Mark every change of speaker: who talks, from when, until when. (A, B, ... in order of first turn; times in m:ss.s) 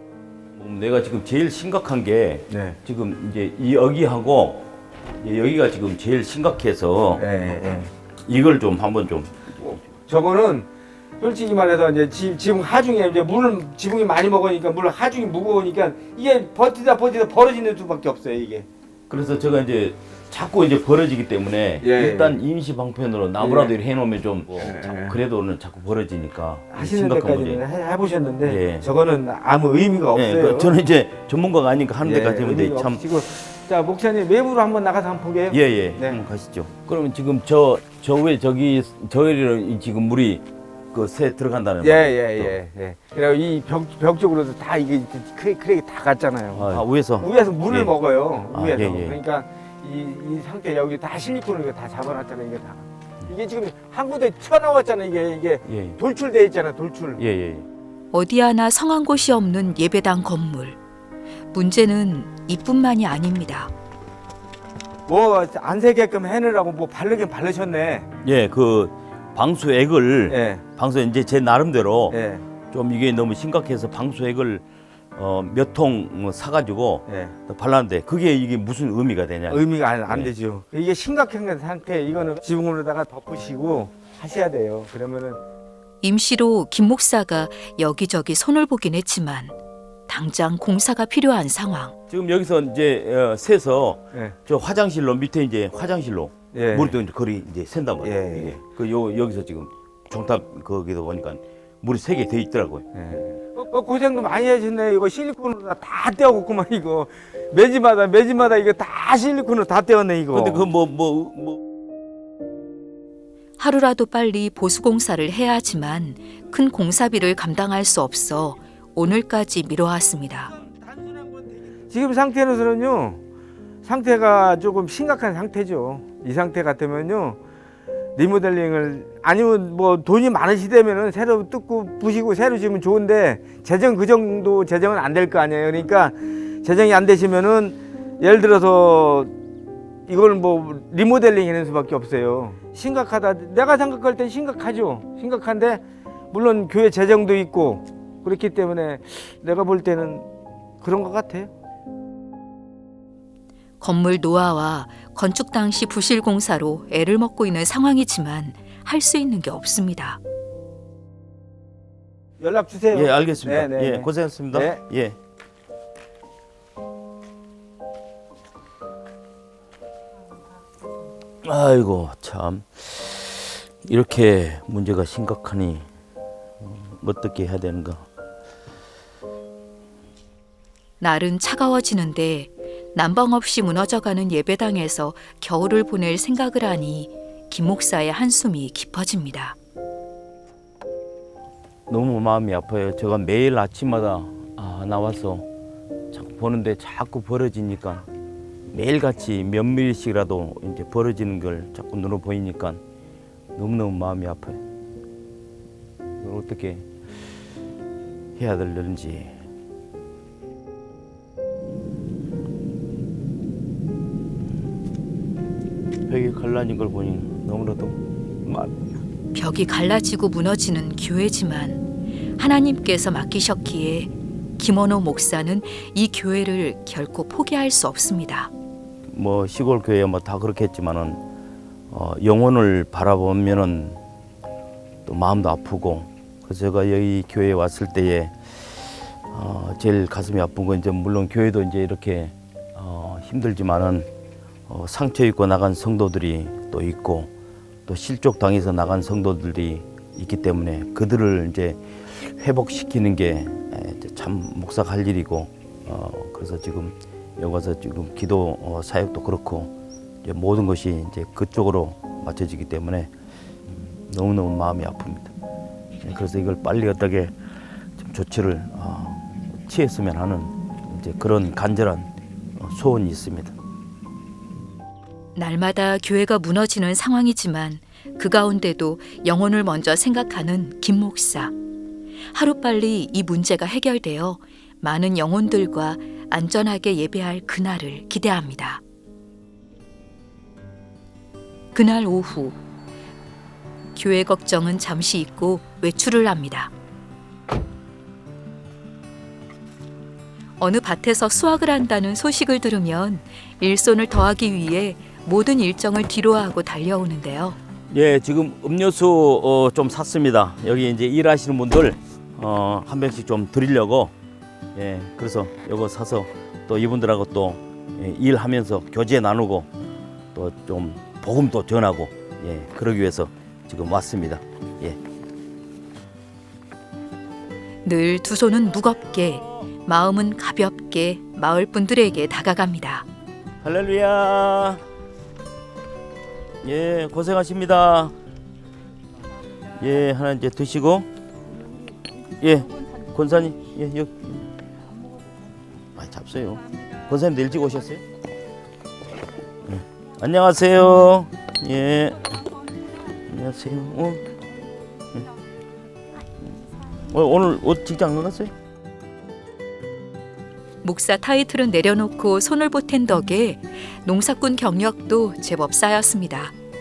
0:00.5-0:07.3 A
0:02.5-0:02.8 B
0:07.2-0:07.9 B
0:08.3-0:09.8 A
0:09.6-0:10.7 B
0:11.2-0:18.7 B
0:19.1-0:27.6 A
0:21.8-0:22.4 B
0:23.4-0:23.7 B
0:24.6-0:25.2 B
0:26.7-0:30.7 B
0:28.4-0:28.9 A
0:30.1-0:33.0 A
0:32.0-0:36.2 B
0:35.5-0:42.6 A
0:41.8-0:57.2 B
0:46.5-0:47.9 A
0:48.5-0:49.2 A
0:55.7-0:56.0 A
0:57.2-0:57.7 A
0:58.1-1:00.8 C
1:01.5-1:03.7 C
1:05.1-1:08.1 B
1:08.2-1:12.2 A
1:10.3-1:10.6 B
1:12.1-1:12.4 B
1:12.7-1:20.3 A
1:17.1-1:17.4 B
1:19.5-1:25.4 B
1:26.0-1:29.5 C
1:30.1-1:32.0 C
1:32.1-1:42.9 A
1:36.5-1:37.0 B
1:38.0-1:38.6 B
1:42.9-1:50.7 B
1:50.3-1:51.6 A
1:53.6-2:00.5 C
2:01.9-2:03.2 B
2:03.8-2:07.4 B
2:08.2-2:19.3 B
2:20.1-2:30.3 B
2:30.8-2:31.5 B
2:33.8-2:40.2 C
2:42.4-2:44.8 B
2:42.9-2:45.2 A
2:51.4-2:55.9 A
2:56.6-2:58.1 A
3:01.0-3:09.6 C
3:11.9-3:15.5 A
3:16.1-3:18.1 A
3:18.7-3:22.8 A
3:23.6-3:24.6 A
3:26.2-3:26.9 A
3:28.4-3:29.4 A
3:36.1-3:38.9 A
3:39.3-3:41.8 C
3:42.4-3:48.5 C
3:49.1-3:51.2 A
3:51.9-3:54.0 A
3:55.1-4:04.1 A
4:04.7-4:07.3 A
4:07.9-4:19.7 A
4:20.2-4:23.1 A
4:23.7-4:25.3 A
4:26.0-4:27.4 A
4:28.0-4:33.6 A
4:35.4-4:41.5 C
4:42.3-4:48.8 C
4:51.7-4:52.6 C
4:54.0-4:56.7 C
5:00.6-5:07.6 C
5:07.9-5:14.1 A
5:14.8-5:19.7 A
5:20.3-5:25.0 A
5:27.8-5:33.1 C
5:33.6-5:34.8 A
5:36.6-5:38.1 A
5:39.8-5:41.1 A
5:42.4-5:44.6 A
5:46.0-5:48.0 A
5:49.6-5:54.3 A
5:57.0-5:58.5 A
6:00.8-6:06.5 C